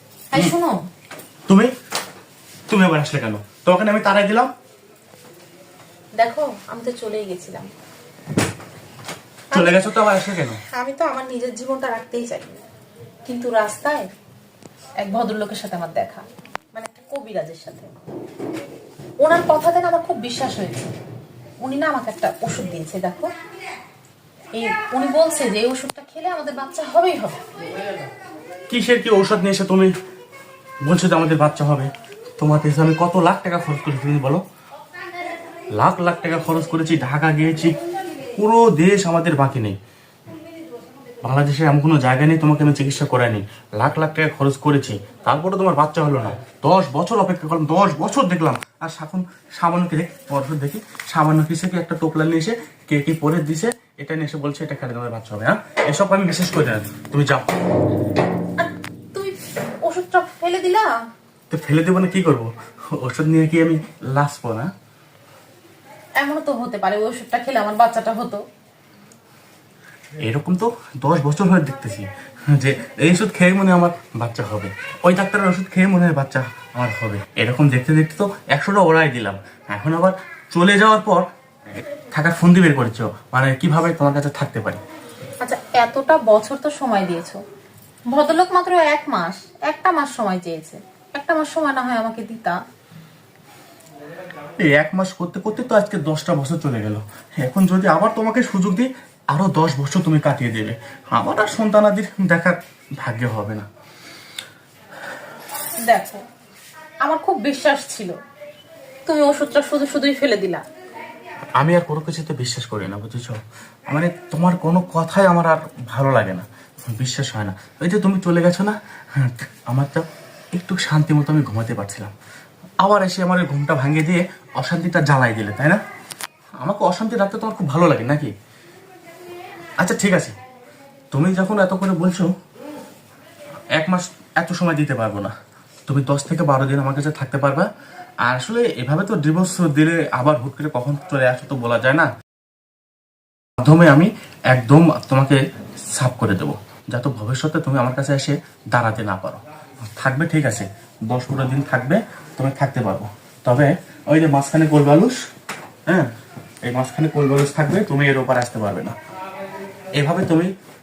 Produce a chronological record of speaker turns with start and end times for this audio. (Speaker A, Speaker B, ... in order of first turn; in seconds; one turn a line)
Speaker A: 0.3-0.8
Speaker B: 1.5-1.7
Speaker B: 2.7-4.5
Speaker A: 6.2-7.7
Speaker B: 9.5-10.6
Speaker A: 9.5-9.9
Speaker A: 10.7-12.6
Speaker A: 13.2-14.1
Speaker A: 15.0-17.9
Speaker A: 19.2-20.9
Speaker A: 21.6-23.3
Speaker A: 24.5-27.4
Speaker B: 28.7-29.9
Speaker B: 30.8-34.4
Speaker B: 35.8-37.8
Speaker B: 38.4-39.8
Speaker B: 41.2-57.6
Speaker A: 58.6-60.9
Speaker B: 61.5-64.7
Speaker A: 66.2-68.4
Speaker B: 70.2-81.3
Speaker B: 82.1-84.8
Speaker A: 85.4-87.4
Speaker A: 88.1-92.6
Speaker B: 94.6-103.7
Speaker A: 105.8-106.2
Speaker A: 107.0-108.2
Speaker A: 109.0-110.6
Speaker B: 111.6-122.1
Speaker B: 122.8-125.8
Speaker B: 126.6-128.3
Speaker B: 129.8-130.3
Speaker B: 131.1-132.3
Speaker B: 133.8-135.3
Speaker B: 135.8-137.7
Speaker B: 138.2-142.1
Speaker B: 143.6-145.4
Speaker B: 145.9-155.2
Speaker B: 156.6-158.9
Speaker B: 159.9-160.5